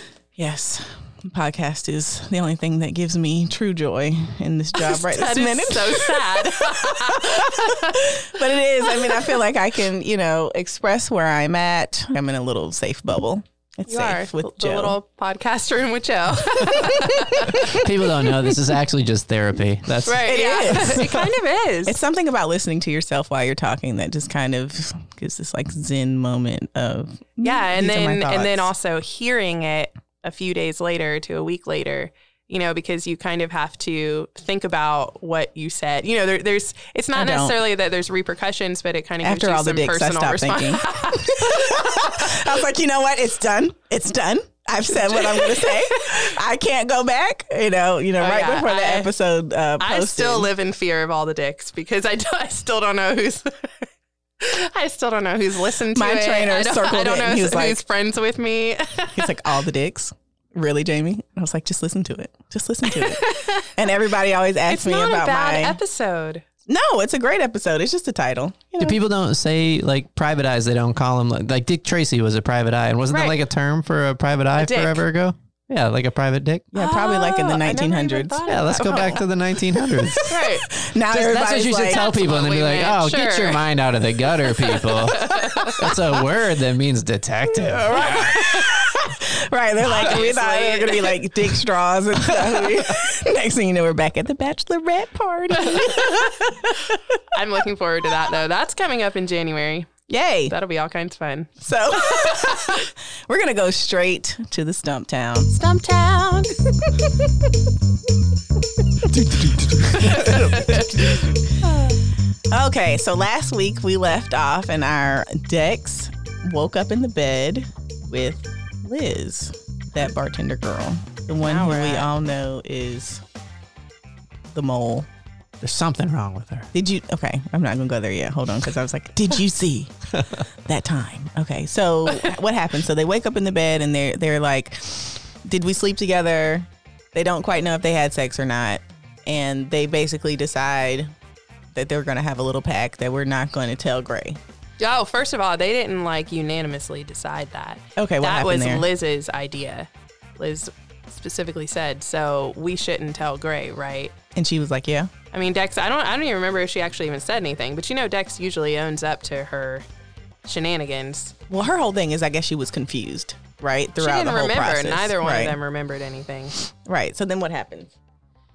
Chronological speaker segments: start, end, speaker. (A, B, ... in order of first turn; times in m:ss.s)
0:00.4-0:15.0 A
0:04.8-0:08.0 B
0:08.9-0:09.3 B
0:13.9-0:17.9 B
0:16.7-0:17.9 A
0:17.7-0:21.0 C
0:20.0-0:22.0 B
0:20.2-0:21.3 A
0:21.8-0:28.7 A
0:27.4-0:42.4 B
0:37.1-0:37.6 A
0:39.2-0:50.5 A
0:44.9-0:46.3 B
0:48.2-0:49.1 B
0:49.8-0:53.7 B
0:54.4-0:59.5 B
0:55.9-0:57.8 A
0:59.1-1:05.8 A
1:02.9-1:03.9 B
1:04.7-1:06.4 B
1:06.6-1:09.0 A
1:08.8-1:16.7 C
1:13.1-1:13.4 B
1:14.6-1:15.0 B
1:16.7-1:19.2 A
1:16.7-1:19.2 B
1:18.5-1:20.4 C
1:19.8-1:22.0 A
1:20.2-1:20.7 B
1:21.1-1:28.4 C
1:21.8-1:23.6 B
1:24.6-1:25.8 B
1:25.8-1:26.2 A
1:27.4-1:37.2 A
1:28.0-1:28.7 B
1:29.8-1:31.2 B
1:32.3-1:32.7 C
1:35.6-1:36.3 B
1:37.3-1:39.9 B
1:40.1-1:40.5 A
1:40.5-1:42.9 B
1:41.6-1:45.5 A
1:45.5-1:46.6 B
1:46.8-1:47.5 A
1:49.0-1:51.4 A
1:49.3-1:50.5 C
1:49.9-1:51.9 B
1:52.5-2:03.2 A
2:01.4-2:02.1 B
2:04.5-2:05.1 A
2:05.6-2:06.7 C
2:06.7-2:10.0 A
2:10.6-2:21.1 A
2:12.1-2:12.3 B
2:21.7-2:24.4 A
2:24.8-2:34.1 B
2:28.0-2:28.8 A
2:34.3-2:35.1 A
2:35.3-2:39.8 B
2:40.4-2:41.4 B
2:41.5-2:45.6 A
2:44.0-2:46.6 B
2:46.7-2:47.9 A